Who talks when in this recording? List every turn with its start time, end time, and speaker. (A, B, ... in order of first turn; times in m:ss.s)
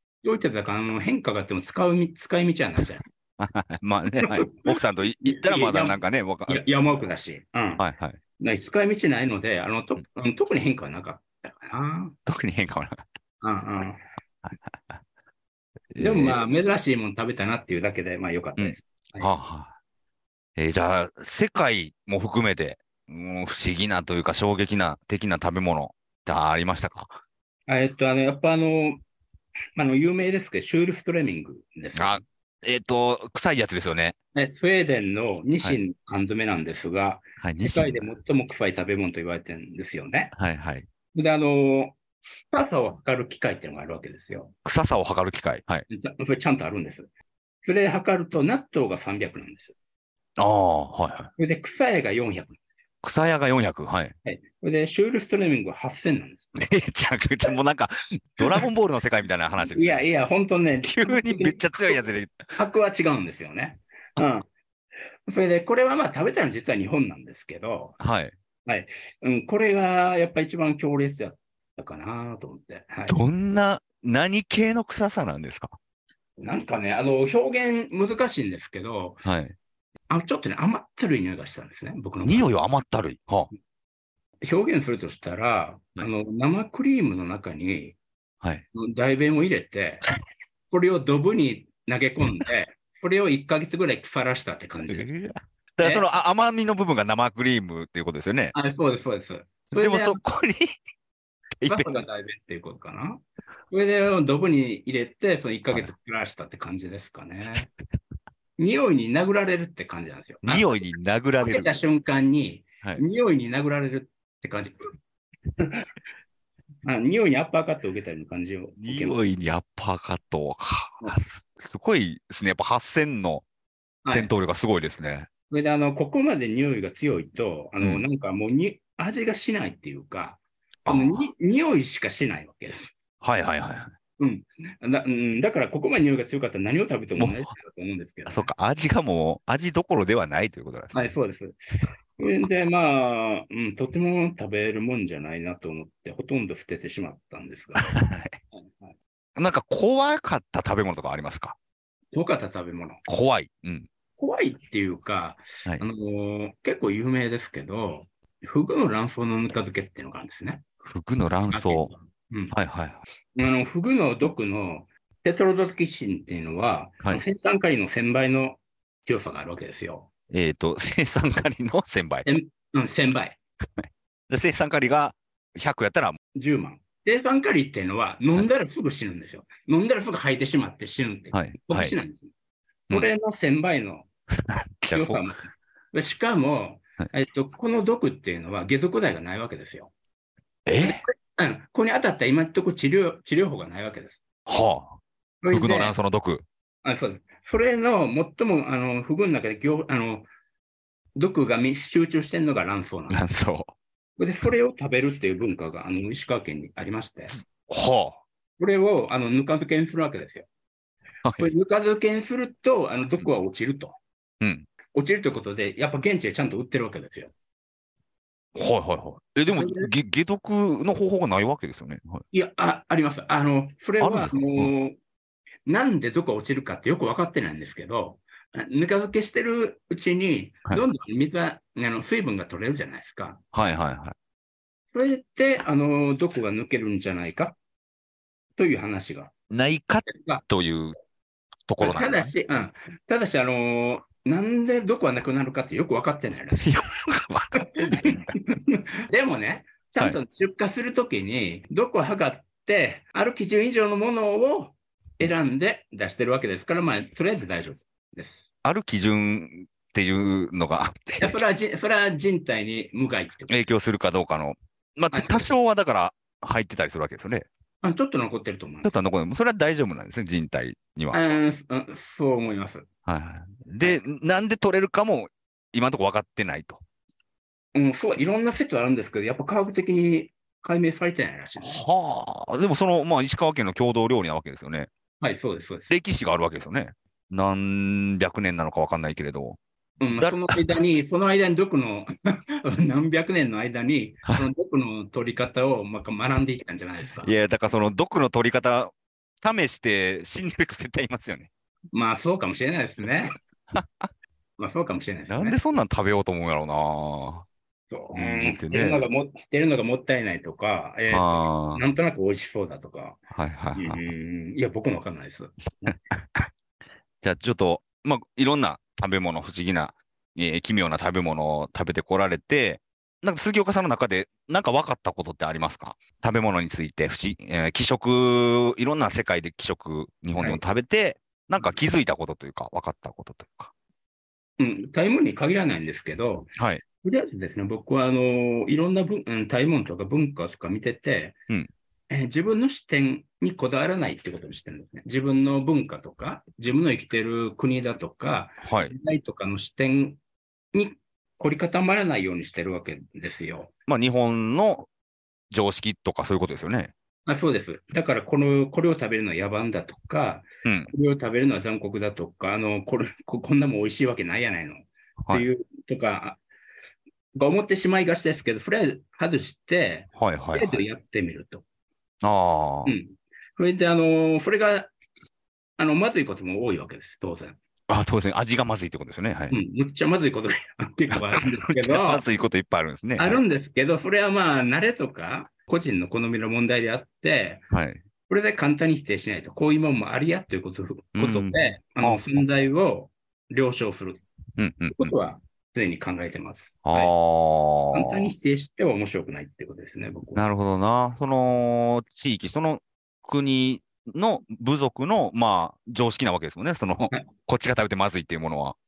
0:00.2-0:03.0 A
0:03.4-0:07.0 B
0:04.2-0:07.8 A
0:07.8-0:08.2 B
0:08.4-0:12.2 A
0:12.3-0:13.0 B
0:13.4-0:14.0 A
0:14.4-0:15.0 B
0:15.9-0:16.4 B
0:16.0-0:19.3 A
0:18.6-0:19.7 B
0:20.6-0:27.1 B
0:27.7-0:29.0 A
0:29.8-0:32.2 A
0:32.0-0:34.2 B
0:34.3-0:40.3 A
0:37.4-0:38.1 B
0:40.3-0:40.9 B
0:41.1-0:42.0 A
0:42.5-0:44.5 A
0:44.6-0:45.9 B
0:45.9-0:47.1 A
0:47.6-0:49.8 A
0:50.4-0:51.3 B
0:51.4-0:52.6 A
0:53.0-0:54.2 B
0:54.2-0:56.7 A
0:56.6-1:00.0 B
0:59.6-1:02.0 A
1:00.9-1:02.4 B
1:02.5-1:04.5 A
1:05.3-1:08.0 A
1:08.0-1:08.3 B
1:08.7-1:13.2 A
1:13.1-1:15.8 B
1:16.4-1:19.2 A
1:19.2-1:19.6 B
1:20.1-1:22.5 A
1:22.2-1:23.5 B
1:24.4-1:28.0 A
1:28.7-1:30.1 A
1:30.7-1:35.1 A
1:34.9-1:38.5 B
1:35.8-1:36.1 A
1:38.5-1:40.2 A
1:39.8-1:40.8 B
1:41.6-1:41.9 B
1:41.7-1:47.7 A
1:48.6-1:50.8 A
1:50.4-1:51.8 B
1:51.4-1:54.8 A
1:56.8-1:59.3 A
1:58.8-2:03.4 B
2:04.0-2:04.3 A
2:04.1-2:05.3 B
2:05.5-2:12.9 A
2:07.8-2:08.1 B
2:10.9-2:11.2 B
2:13.2-2:13.9 B
2:14.2-2:18.5 A
2:17.2-2:17.5 B
2:18.3-2:21.1 B
2:20.9-2:28.0 A
2:27.8-2:28.4 B
2:28.6-2:29.0 A
2:29.4-2:31.6 B
2:32.1-2:33.0 A
2:33.1-2:33.9 B
2:34.2-2:40.6 A
2:40.8-2:41.9 B
2:41.5-2:42.6 A
2:42.5-2:43.0 B
2:43.4-2:50.1 A
2:50.3-2:52.3 B
2:52.2-2:53.4 A
2:53.8-2:56.2 B
2:56.4-3:02.3 A
3:01.3-3:02.0 B
3:02.9-3:04.1 A
3:04.5-3:05.3 B
3:04.9-3:09.9 A
3:10.7-3:11.0 B
3:10.8-3:14.2 A
3:14.5-3:15.0 B
3:15.4-3:16.0 A
3:15.5-3:16.4 B
3:16.8-3:20.3 A
3:21.2-3:23.2 A
3:23.1-3:23.7 B
3:24.2-3:27.3 A
3:27.7-3:28.2 B
3:28.6-3:30.5 A
3:31.2-3:31.5 B
3:31.4-3:34.0 A
3:34.4-3:34.7 B
3:34.9-3:37.3 A
3:38.6-3:42.2 B
3:39.5-3:39.9 A
3:42.3-3:45.0 A
3:44.0-3:44.7 B
3:45.7-3:53.4 A
3:53.5-3:54.2 B
3:54.9-3:57.6 A
3:58.6-3:59.3 A
3:59.5-4:01.0 B
4:00.1-4:00.4 A
4:01.7-4:02.3 B
4:01.8-4:06.7 A
4:06.6-4:08.3 B
4:07.6-4:18.5 A
4:18.6-4:21.4 B
4:21.2-4:23.6 A
4:23.5-4:27.5 B
4:25.1-4:25.5 A
4:27.8-4:29.0 A
4:28.8-4:31.2 B
4:31.1-4:32.9 A
4:33.1-4:36.8 B
4:37.8-4:41.8 A
4:41.6-4:44.9 B
4:45.2-4:45.9 A
4:45.9-4:49.6 B
4:50.0-4:57.3 A
4:50.1-4:50.7 B
4:57.2-5:01.5 B
5:01.9-5:03.4 A
5:03.7-5:04.1 B
5:04.6-5:05.6 A
5:05.3-5:07.5 B
5:07.9-5:13.2 A
5:08.2-5:09.0 B
5:11.1-5:11.8 B
5:13.3-5:14.0 B
5:13.8-5:16.0 A
5:17.2-5:33.7 B
5:34.6-5:41.4 A
5:36.6-5:36.8 B
5:42.1-5:50.2 A
5:48.6-5:48.9 B
5:50.7-5:53.7 A
5:53.9-5:54.9 B
5:55.5-5:56.9 B
5:57.3-6:06.4 A
6:00.6-6:00.9 B
6:05.2-6:05.5 B
6:07.4-6:11.6 A
6:10.2-6:10.8 B
6:12.2-6:13.0 B
6:12.9-6:14.9 A
6:15.8-6:17.6 A
6:17.9-6:19.6 B
6:19.5-6:22.2 A
6:21.1-6:23.4 B
6:23.2-6:27.6 A
6:27.7-6:28.0 B
6:28.3-6:34.2 A
6:31.2-6:32.4 B
6:34.6-6:35.1 B
6:34.9-6:37.1 A
6:36.8-6:38.3 B
6:37.9-6:40.5 A
6:40.4-6:48.8 B